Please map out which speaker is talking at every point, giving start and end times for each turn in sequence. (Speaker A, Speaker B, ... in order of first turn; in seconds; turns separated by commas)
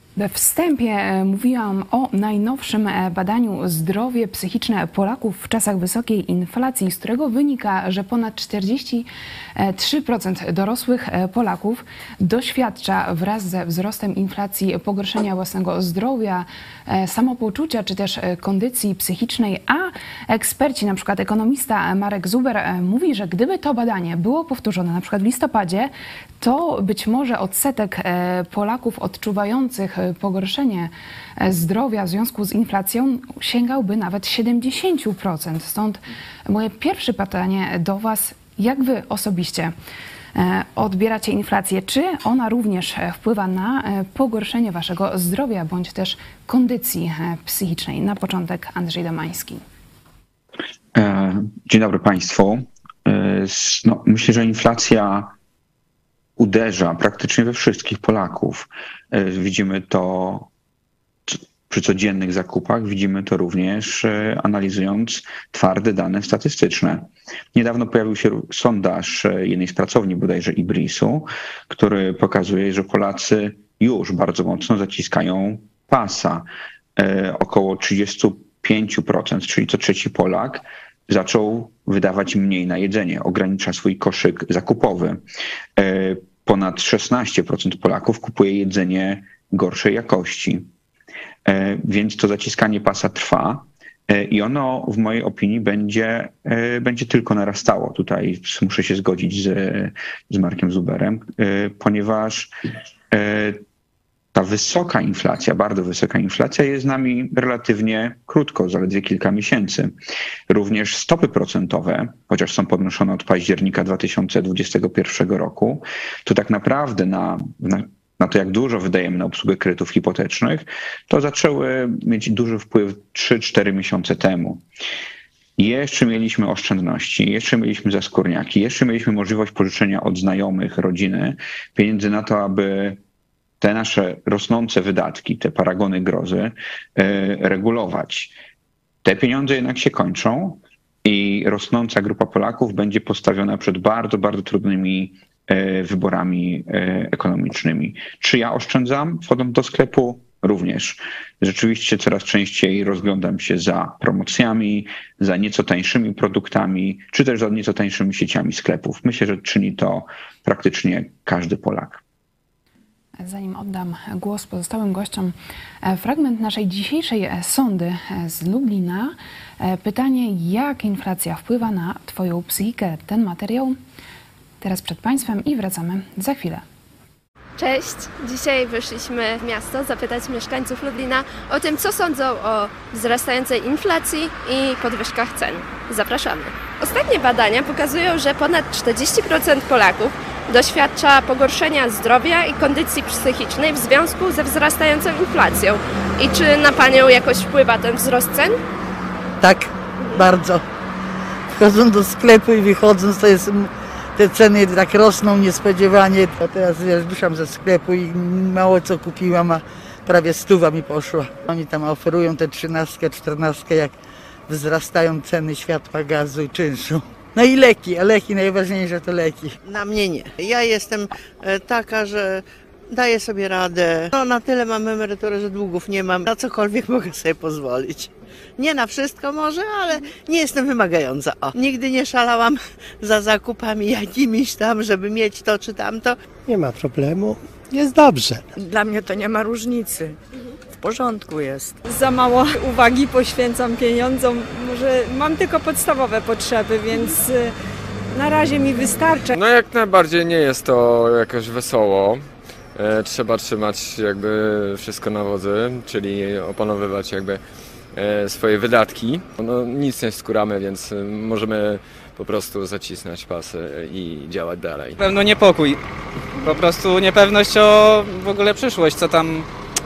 Speaker A: 0.2-9.1, Speaker A: 9.6-39.7, Speaker A: 40.3-49.6, Speaker B: 50.9-55.3, Speaker B: 56.4-60.5, Speaker B: 61.3-85.2, Speaker B: 85.8-90.7, Speaker B: 91.4-102.5, Speaker B: 103.1-103.6, Speaker B: 104.3-109.9, Speaker B: 110.5-124.6, Speaker B: 125.6-133.0, Speaker B: 133.6-138.3, Speaker B: 139.0-162.0, Speaker A: 163.2-173.8, Speaker A: 174.6-176.6, Speaker C: 177.6-198.6, Speaker D: 199.4-200.6, Speaker D: 201.5-213.9, Speaker D: 214.5-219.6, Speaker E: 219.6-236.2, Speaker F: 236.4-238.5, Speaker G: 238.5-240.2, Speaker G: 240.7-241.8, Speaker H: 241.8-247.5, Speaker H: 248.1-249.3, Speaker I: 249.3-265.0, Speaker J: 265.0-265.8, Speaker J: 266.4-269.5